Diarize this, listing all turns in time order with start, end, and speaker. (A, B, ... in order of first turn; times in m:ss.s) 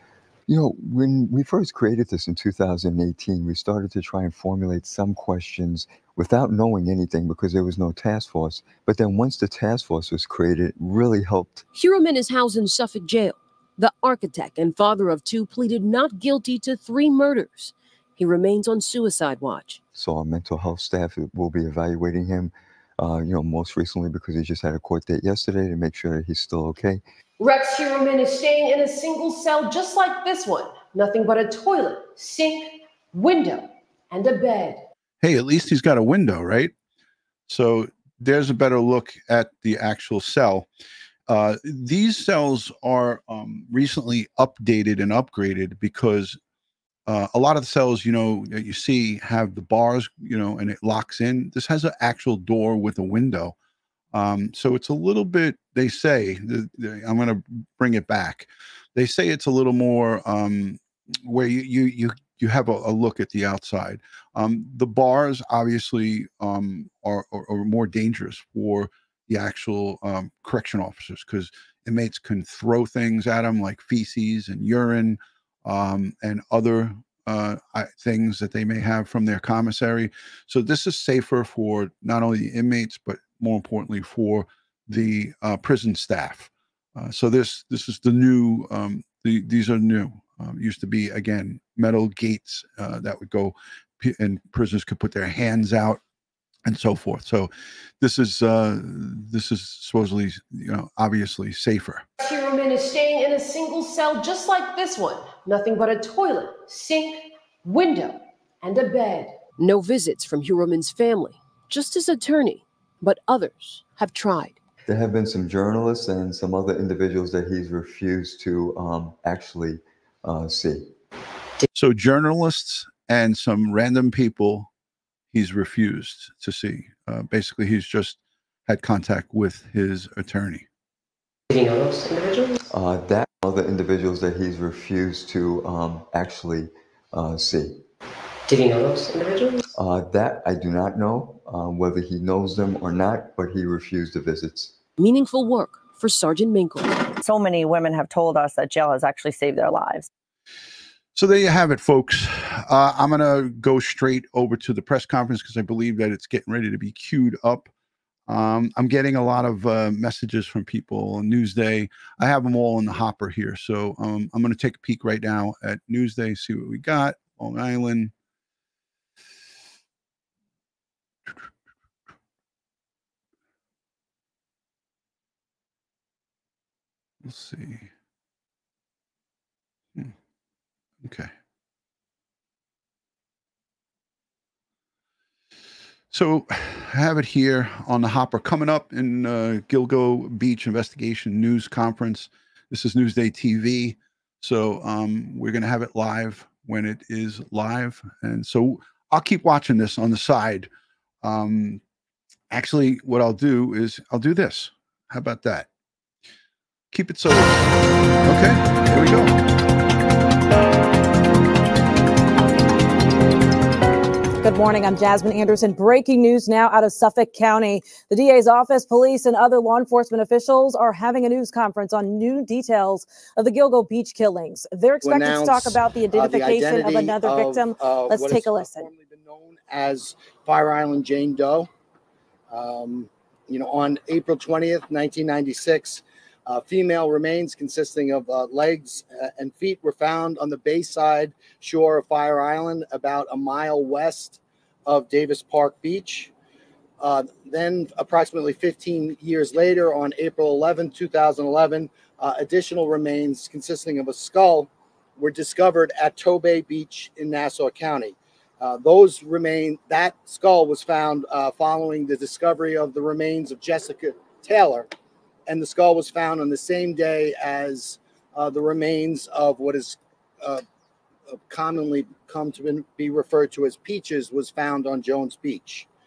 0:00.5-0:11.6 A
0:11.7-0:19.8 B
0:19.9-0:27.0 A
0:27.4-0:34.8 B
0:35.2-0:36.7 C
0:37.5-0:40.7 C
0:41.3-0:46.4 C
0:47.1-0:53.5 C
0:54.1-1:36.0 C
1:36.6-1:42.0 C
1:42.2-1:54.6 B
1:54.8-2:00.9 A
2:01.7-2:04.7 C
2:05.3-2:10.6 C
2:11.5-2:12.6 D
2:12.7-2:17.8 A
2:18.5-2:19.7 D
2:19.7-2:24.7 A
2:25.0-2:27.0 B
2:27.2-2:30.1 E
2:31.1-2:37.7 C
2:38.3-2:48.1 C
2:57.2-2:57.9 C
3:01.0-3:01.3 C
3:06.1-3:20.7 C
3:21.2-3:21.8 C
3:22.5-3:25.7 C
3:26.9-3:29.4 C
3:34.4-3:48.8 F
3:45.0-3:51.7 G
3:52.5-4:06.3 G
4:07.0-4:24.9 G
4:25.4-4:30.6 G
4:31.3-4:35.9 G